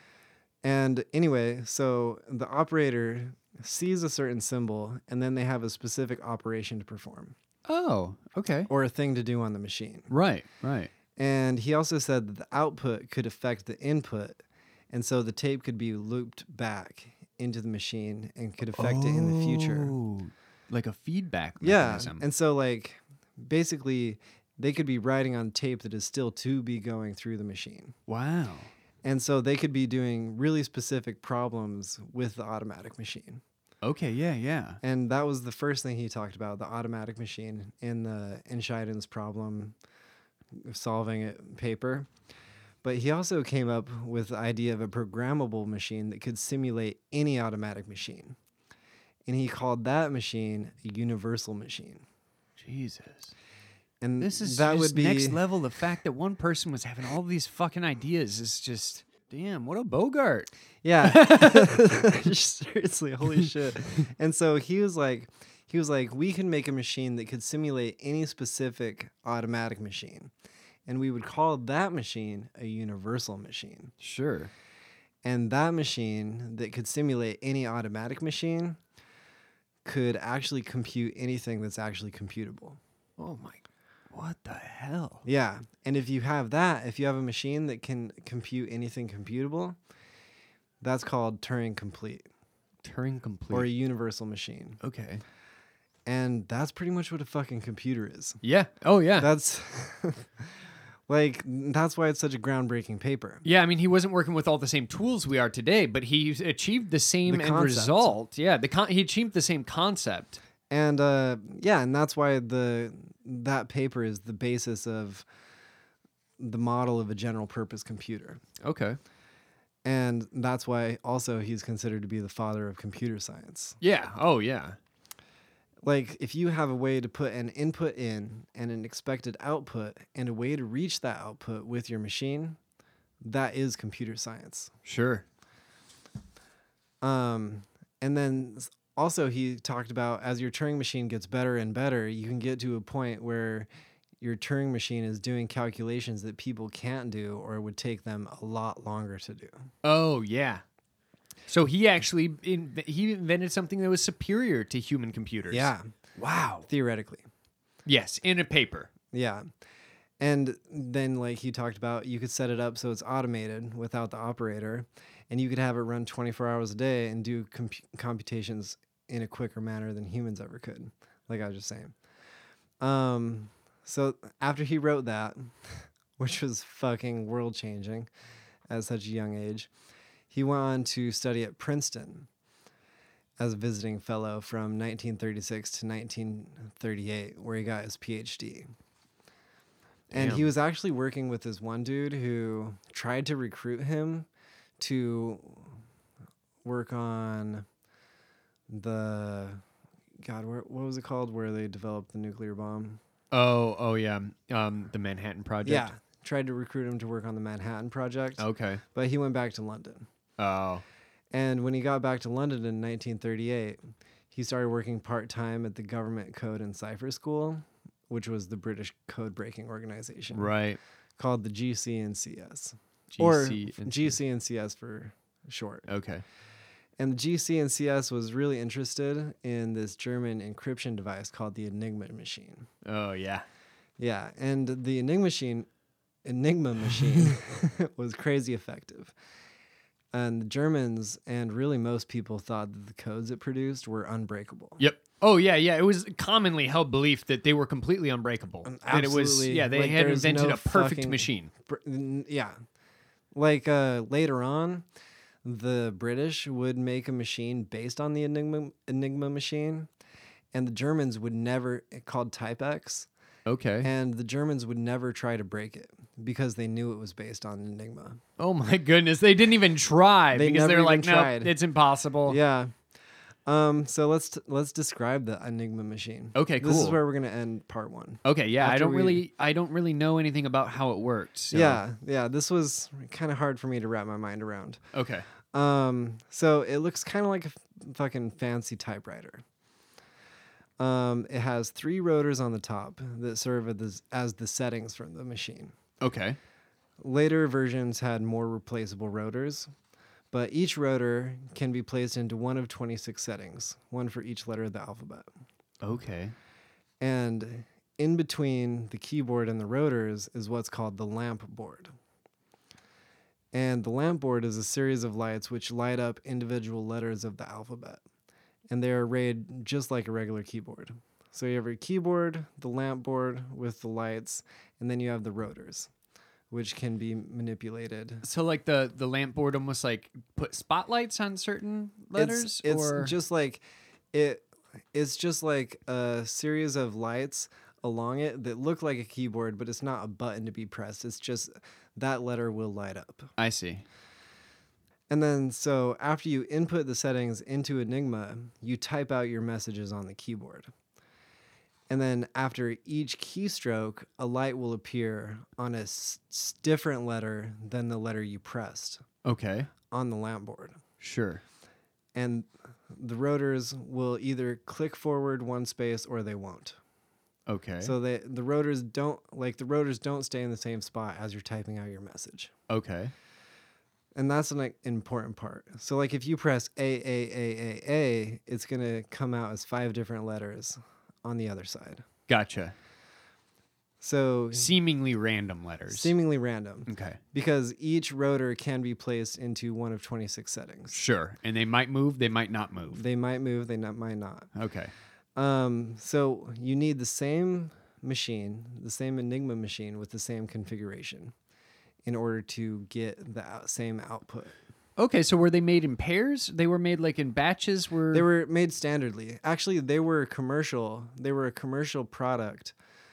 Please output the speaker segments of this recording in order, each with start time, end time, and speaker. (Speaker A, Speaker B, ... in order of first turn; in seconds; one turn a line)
Speaker A: 0.6-7.3
Speaker B: 7.7-8.7
Speaker A: 8.7-10.1
Speaker B: 10.1-10.9
Speaker A: 11.2-19.9
Speaker B: 18.8-22.2
Speaker A: 21.6-27.9
Speaker B: 28.1-28.7
Speaker A: 29.0-33.4
Speaker B: 33.8-34.8
Speaker A: 34.8-39.7
Speaker A: 40.5-42.1
Speaker A: 42.8-48.4
Speaker A: 49.3-52.0
Speaker B: 52.6-53.3
Speaker A: 54.0-55.4
Speaker B: 54.2-60.5
Speaker A: 60.8-70.3
Speaker B: 61.0-61.8
Speaker A: 70.9-73.9
Speaker B: 74.0-74.5
Speaker A: 75.2-78.8
Speaker A: 79.8-82.8
Speaker B: 83.2-85.2
Speaker A: 85.2-89.8
Speaker A: 90.8-92.2
Speaker B: 92.8-93.7
Speaker A: 93.5-94.8
Speaker B: 94.8-95.2
Speaker A: 96.0-98.4
Speaker B: 98.4-99.3
Speaker A: 99.2-100.3
Speaker A: 101.1-103.4
Speaker B: 103.4-110.4
Speaker A: 107.3-108.1
Speaker A: 110.7-115.2
Speaker A: 116.4-118.4
Speaker B: 118.6-119.0
Speaker A: 119.8-123.8
Speaker B: 123.8-124.8
Speaker A: 125.8-132.6
Speaker A: 133.2-134.7
Speaker B: 134.8-135.2
Speaker A: 137.0-143.7
Speaker A: 144.2-149.5
Speaker B: 149.8-150.6
Speaker B: 151.5-156.7
Speaker A: 155.5-155.9
Speaker A: 156.7-157.2
Speaker B: 157.8-158.9
Speaker A: 159.1-159.4
Speaker A: 160.2-171.9
Speaker A: 172.8-178.1
Speaker A: 178.7-179.7
Speaker A: 180.3-182.3
Speaker A: 183.4-188.7
Speaker A: 190.1-194.3
Speaker B: 190.1-190.5
Speaker A: 194.8-195.7
Speaker A: 196.6-197.7
Speaker A: 198.7-199.6
Speaker A: 200.2-203.0
Speaker B: 203.3-205.9
Speaker A: 205.6-210.1
Speaker B: 208.4-208.8
Speaker B: 210.4-210.8
Speaker A: 211.3-213.8
Speaker A: 214.3-220.5
Speaker B: 220.3-220.8
Speaker A: 221.2-225.8
Speaker B: 223.1-224.1
Speaker B: 225.9-226.2
Speaker A: 227.0-232.7
Speaker B: 232.8-233.4
Speaker A: 234.0-235.7
Speaker A: 236.2-239.1
Speaker A: 240.1-244.8
Speaker B: 244.8-251.5
Speaker A: 248.6-252.5
Speaker A: 253.3-254.8
Speaker A: 255.4-259.9
Speaker A: 260.5-263.1
Speaker B: 263.4-263.9
Speaker A: 263.8-268.2
Speaker B: 268.4-272.4
Speaker A: 270.3-271.5
Speaker A: 272.2-272.7
Speaker A: 273.5-279.2
Speaker B: 276.3-277.0
Speaker B: 278.2-281.8
Speaker A: 281.5-284.8
Speaker B: 284.9-285.2
Speaker A: 285.5-289.4
Speaker A: 290.8-295.7
Speaker B: 296.0-296.4
Speaker A: 297.0-299.7
Speaker A: 300.3-305.2
Speaker B: 305.8-306.3
Speaker A: 307.0-311.9
Speaker A: 313.5-318.0
Speaker A: 318.7-325.9
Speaker A: 326.5-328.2
Speaker B: 328.2-333.1
Speaker A: 332.1-333.6
Speaker A: 334.1-343.3
Speaker B: 343.4-343.8
Speaker A: 345.1-350.7
Speaker A: 351.9-359.0
Speaker B: 359.2-359.7
Speaker A: 359.9-360.8
Speaker B: 361.0-361.4
Speaker A: 362.1-366.8
Speaker B: 367.5-367.9
Speaker A: 367.8-372.5
Speaker B: 372.7-373.1
Speaker A: 374.1-382.1
Speaker B: 382.3-382.7
Speaker A: 384.0-384.7
Speaker B: 384.5-386.1
Speaker A: 385.9-390.9
Speaker B: 386.9-387.2
Speaker B: 390.9-393.0
Speaker A: 392.9-394.5
Speaker B: 394.5-394.9
Speaker A: 395.4-401.3
Speaker A: 402.1-404.5
Speaker B: 405.0-408.2
Speaker A: 408.1-412.7